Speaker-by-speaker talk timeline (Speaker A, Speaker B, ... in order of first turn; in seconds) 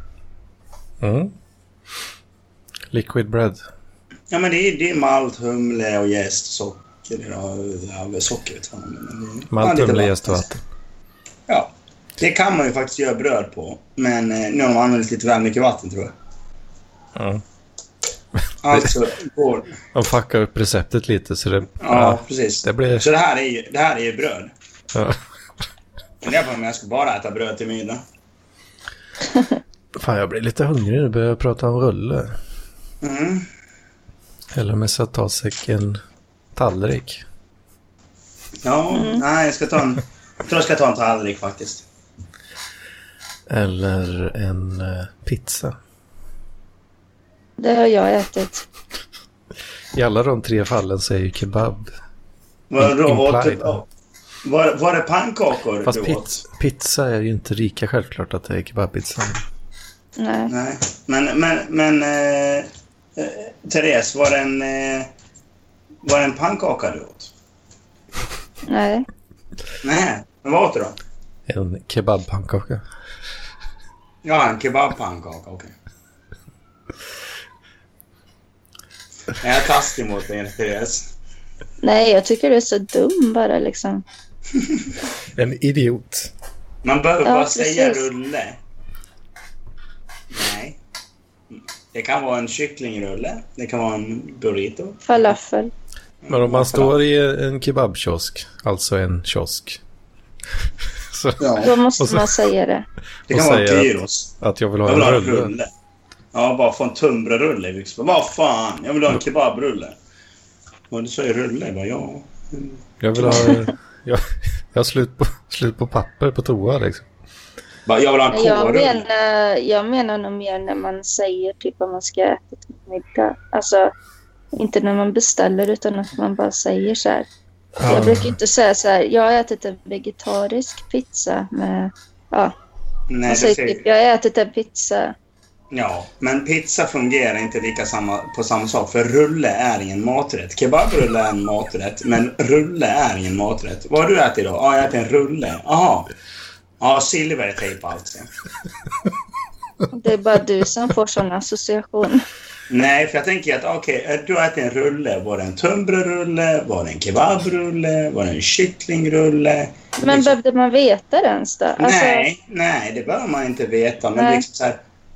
Speaker A: 1.0-1.3, 2.9-3.6, 9.5-10.6, 17.1-17.4, 19.9-23.1, 24.9-25.2, 29.9-32.3, 34.5-36.0, 36.5-37.2, 43.5-45.8, 49.9-51.9, 52.8-53.8, 55.9-59.4, 71.5-72.8, 85.4-86.3, 96.3-99.8, 101.1-101.5, 102.0-102.3, 103.3-105.5, 113.0-117.1, 127.8-128.4
Speaker B: 4.3-10.4, 11.5-16.1, 18.6-19.7, 21.8-24.5, 26.2-28.0, 33.0-33.5, 38.6-41.9, 52.7-53.8, 54.4-56.4, 60.5-65.1, 66.0-67.3, 69.8-71.0, 74.2-75.7, 79.4-81.1, 86.8-88.6, 90.3-90.8, 91.9-95.0, 96.2-97.0, 101.4-101.7, 103.3-104.3, 104.9-105.7, 106.3-110.0, 110.9-113.5, 117.9-119.0, 127.8-128.1, 133.1-133.8, 135.7-146.1, 146.8-148.3, 152.7-160.4, 161.8-164.8
Speaker C: 38.9-39.2, 47.6-48.7, 60.2-60.5, 68.7-69.1, 81.8-84.0, 87.2-88.1, 95.0-95.7, 101.6-102.8, 113.3-113.6, 118.3-123.9, 124.6-127.3, 127.8-132.5, 133.3-135.1, 149.9-152.2, 160.0-162.3, 164.2-164.4